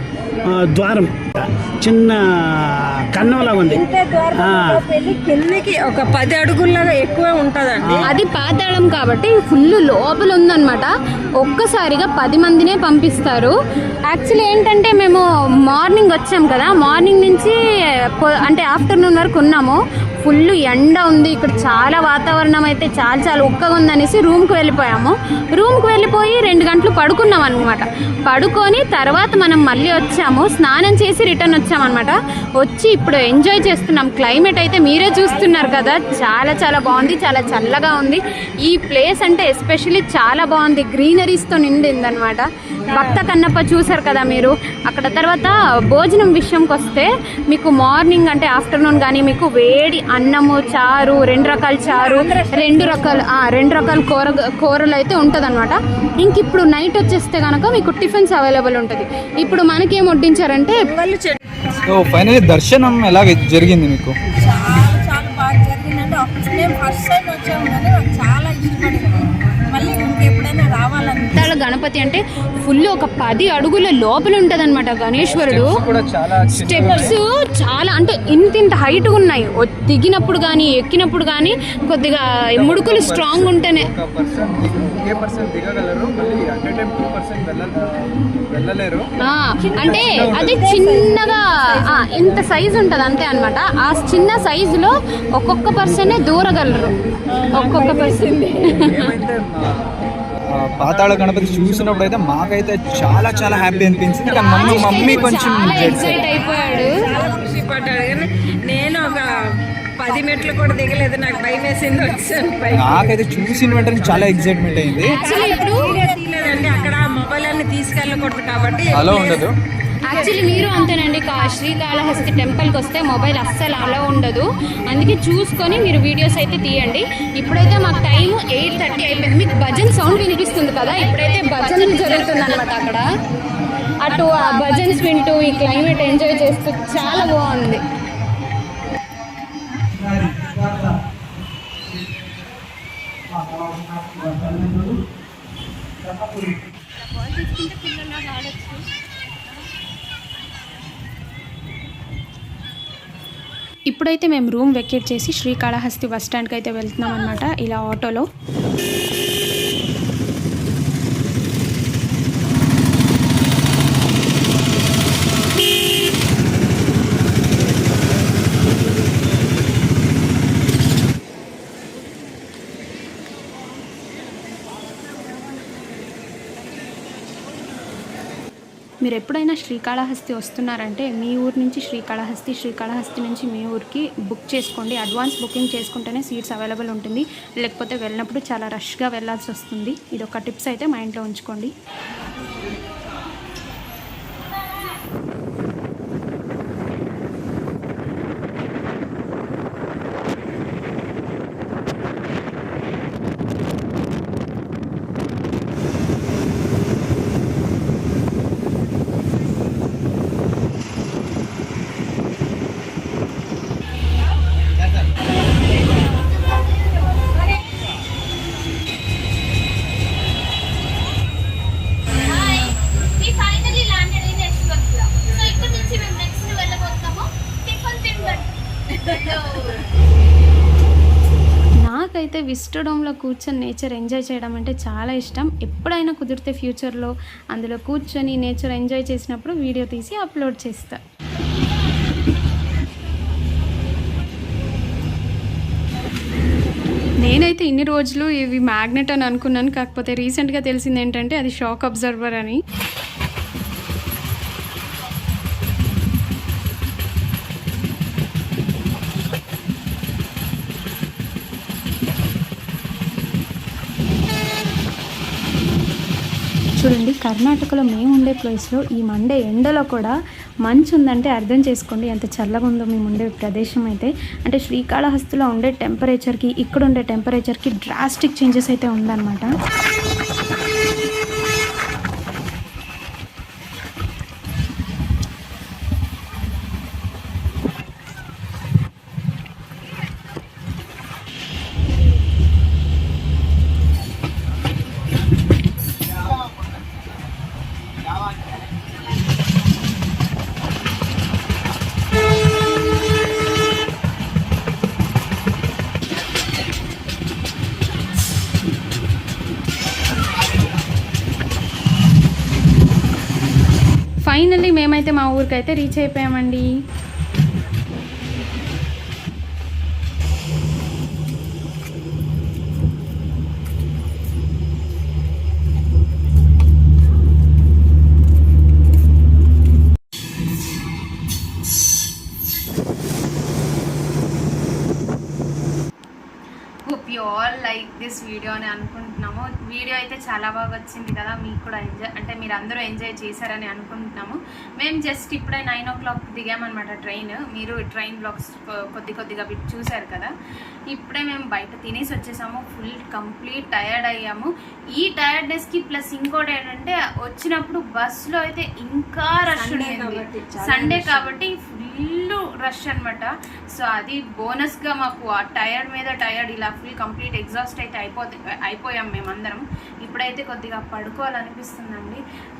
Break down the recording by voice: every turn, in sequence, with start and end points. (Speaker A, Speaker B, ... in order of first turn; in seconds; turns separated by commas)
Speaker A: 0.4-3.8, Speaker B: 3.7-8.1, Speaker A: 4.4-4.7, Speaker A: 7.8-8.1, Speaker C: 8.0-13.5, Speaker C: 14.1-60.8, Speaker B: 42.9-43.2, Speaker B: 51.8-53.2, Speaker B: 60.9-61.4, Speaker D: 61.9-64.2, Speaker B: 64.4-71.4, Speaker C: 71.3-75.7, Speaker D: 75.2-77.2, Speaker C: 76.5-83.9, Speaker B: 76.7-77.1, Speaker D: 82.5-87.7, Speaker D: 88.5-89.0, Speaker C: 89.2-96.9, Speaker B: 89.6-92.5, Speaker D: 89.8-90.4, Speaker B: 97.3-99.1, Speaker C: 97.5-99.1, Speaker D: 98.8-99.6, Speaker D: 100.5-106.2, Speaker B: 104.1-109.3, Speaker C: 104.4-107.2, Speaker B: 110.0-119.5, Speaker D: 112.7-115.3, Speaker C: 115.0-116.3, Speaker D: 118.9-119.5, Speaker C: 120.0-133.1, Speaker C: 134.0-137.8, Speaker A: 143.4-144.9, Speaker C: 147.1-148.8, Speaker E: 153.9-158.2, Speaker E: 179.0-191.7, Speaker C: 222.2-228.5, Speaker C: 229.0-229.8, Speaker E: 231.8-241.0, Speaker E: 247.2-252.6, Speaker E: 266.8-270.1, Speaker E: 270.6-279.5, Speaker E: 314.2-316.7, Speaker E: 336.9-350.3, Speaker E: 350.9-372.2, Speaker B: 359.5-361.4